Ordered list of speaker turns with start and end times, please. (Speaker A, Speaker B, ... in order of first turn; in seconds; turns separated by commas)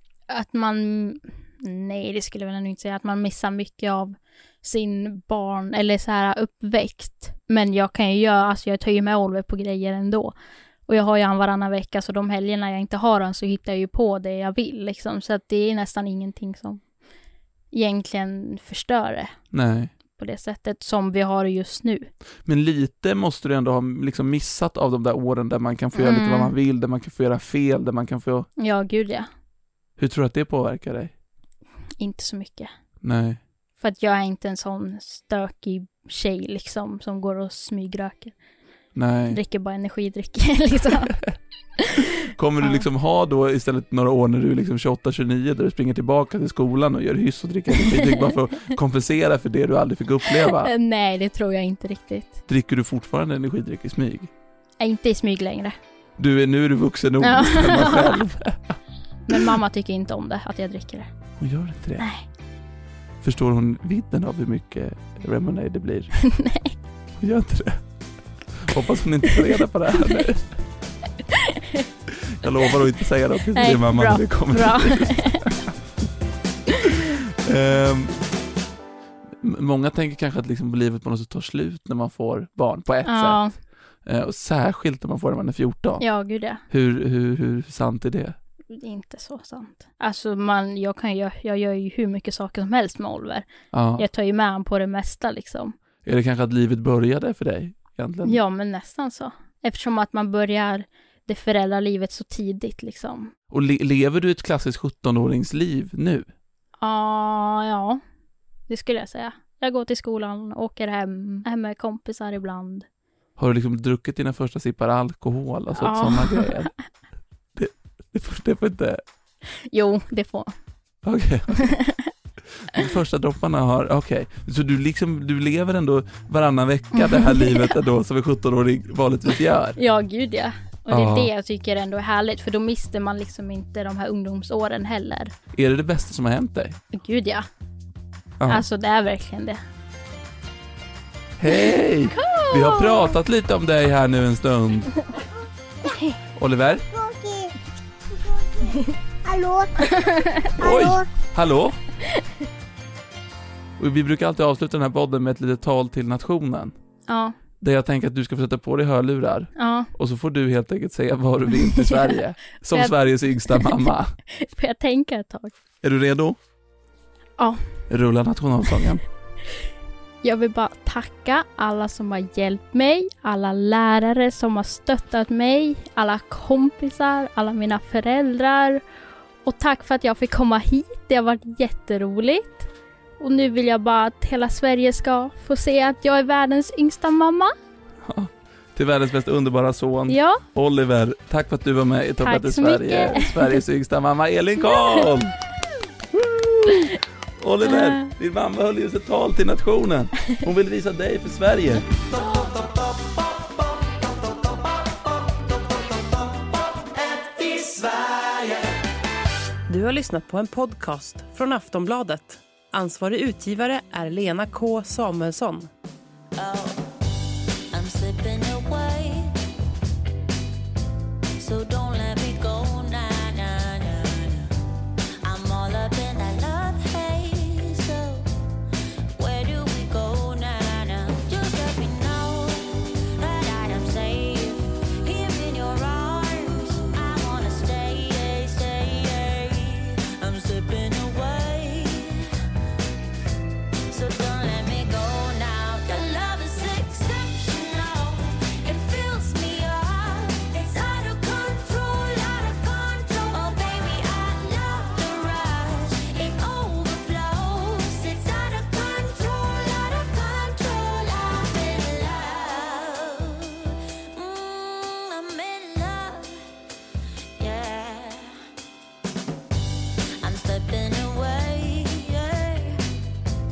Speaker A: 0.3-10.3, Speaker A: 10.9-16.8, Speaker A: 17.7-19.4, Speaker B: 19.5-19.9, Speaker A: 20.2-22.1, Speaker B: 22.4-28.5, Speaker A: 25.9-26.5, Speaker A: 28.6-29.3, Speaker B: 30.0-31.1, Speaker A: 32.0-32.7, Speaker B: 33.0-33.4, Speaker A: 33.8-38.3, Speaker B: 38.9-39.4, Speaker A: 39.3-41.1, Speaker A: 41.8-42.1, Speaker B: 42.2-50.7, Speaker A: 42.6-42.9, Speaker A: 47.7-48.3, Speaker A: 50.3-52.4, Speaker B: 52.5-54.3, Speaker A: 54.8-55.8, Speaker B: 56.2-58.8, Speaker A: 57.2-58.2, Speaker A: 59.3-61.1, Speaker B: 61.4-62.1, Speaker A: 62.0-62.2, Speaker B: 63.2-66.1, Speaker A: 66.2-66.7, Speaker B: 67.2-67.8, Speaker B: 68.6-70.5, Speaker A: 70.0-70.2, Speaker A: 71.3-71.8, Speaker B: 72.1-75.7, Speaker A: 73.5-75.5, Speaker B: 76.8-78.1, Speaker B: 79.4-83.4, Speaker A: 83.0-83.5, Speaker B: 84.0-86.0, Speaker A: 86.0-86.6, Speaker B: 86.7-88.3, Speaker A: 88.7-93.5, Speaker B: 93.7-94.0, Speaker A: 94.0-95.7, Speaker B: 96.0-98.4, Speaker A: 98.2-103.3, Speaker B: 103.5-106.3, Speaker A: 106.8-108.0, Speaker A: 108.7-112.8, Speaker B: 113.4-116.7, Speaker A: 115.7-116.7, Speaker B: 117.5-119.0, Speaker A: 119.6-120.5, Speaker B: 121.0-121.8, Speaker A: 121.6-122.1, Speaker B: 122.7-129.8, Speaker A: 126.9-127.8, Speaker A: 129.8-135.3, Speaker B: 130.9-131.3, Speaker B: 135.5-136.8, Speaker A: 136.9-137.4, Speaker B: 138.4-138.6, Speaker A: 138.5-139.6, Speaker B: 141.4-144.9, Speaker A: 142.1-143.1, Speaker B: 146.4-146.8, Speaker C: 146.9-147.5, Speaker C: 148.2-151.1, Speaker A: 150.0-150.3, Speaker B: 150.6-151.8, Speaker B: 153.8-156.7, Speaker A: 157.1-157.3, Speaker B: 157.6-164.1, Speaker A: 159.6-159.9, Speaker A: 161.6-162.2, Speaker A: 162.7-165.5, Speaker B: 165.8-166.4, Speaker B: 167.9-169.0, Speaker A: 170.2-178.8, Speaker A: 179.4-182.7, Speaker A: 183.2-187.5, Speaker B: 188.0-195.4, Speaker A: 190.1-190.4, Speaker A: 192.2-193.6, Speaker B: 196.1-202.3, Speaker A: 197.7-198.1, Speaker D: 209.7-215.7, Speaker E: 216.3-216.9, Speaker E: 217.7-219.3, Speaker E: 221.4-224.5, Speaker E: 225.2-228.3, Speaker E: 229.1-242.3, Speaker E: 243.9-266.5, Speaker E: 267.4-268.4, Speaker E: 270.2-272.8